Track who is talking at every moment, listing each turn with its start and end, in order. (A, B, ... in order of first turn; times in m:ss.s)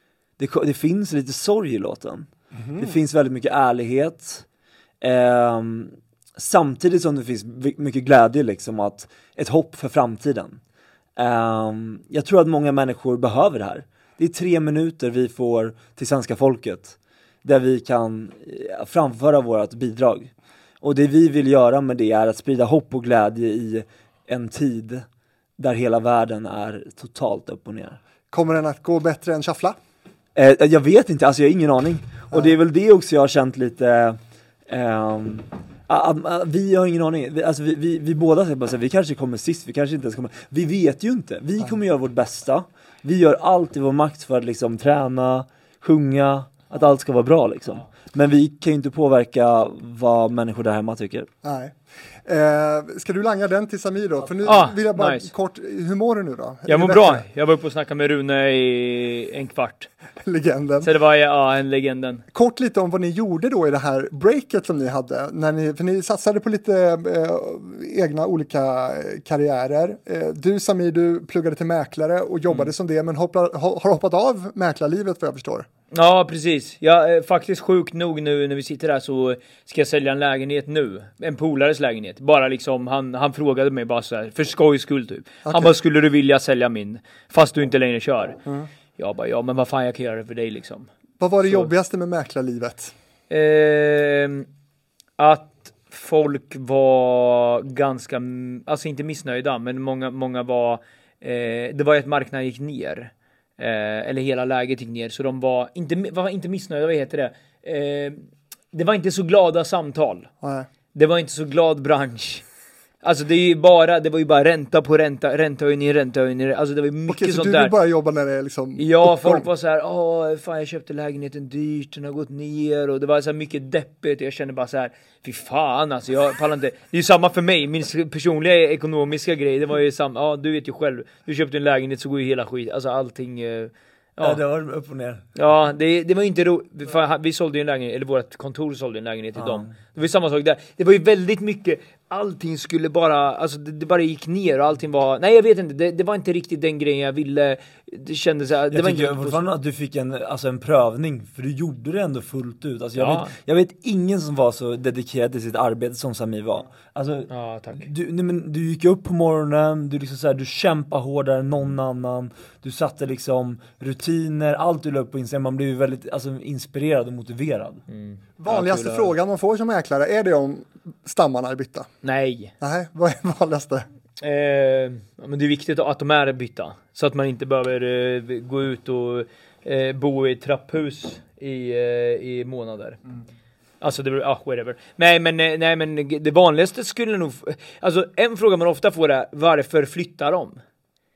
0:00.4-0:04.4 A
0:02.6-0:03.0 B
0:05.0-0:10.6 A
0:11.2-0:25.0 A
0:25.6-0:28.0 A
0:28.3-0:29.8 B
0:30.3-0:51.3 A
0:51.4-0:57.2 B
0:54.4-0:55.3 C
0:56.7-0:59.9 C
1:00.2-1:00.9 B
1:00.8-1:02.2 C
1:02.3-1:15.7 B
1:15.9-1:28.4 C
1:25.4-1:25.7 B
1:29.0-1:30.9 C
1:31.2-1:32.9 B
1:31.4-1:31.7 C
1:33.3-1:34.4 C
1:35.2-1:50.3 C
1:50.4-1:50.7 B
1:50.9-1:52.4 C
1:53.0-1:57.7 C
1:57.1-1:59.4 B
1:58.8-2:14.4 C
2:14.2-2:15.2 A
2:15.4-2:29.4 C
2:19.4-2:19.7 A
2:28.7-2:47.8 A
2:33.0-2:33.3 C
2:37.3-2:37.9 C
2:47.9-2:49.1 C
2:48.4-2:51.9 B
2:52.0-2:52.5 C
2:52.6-2:53.8 B
2:54.2-3:03.0 C
3:03.8-3:10.6 C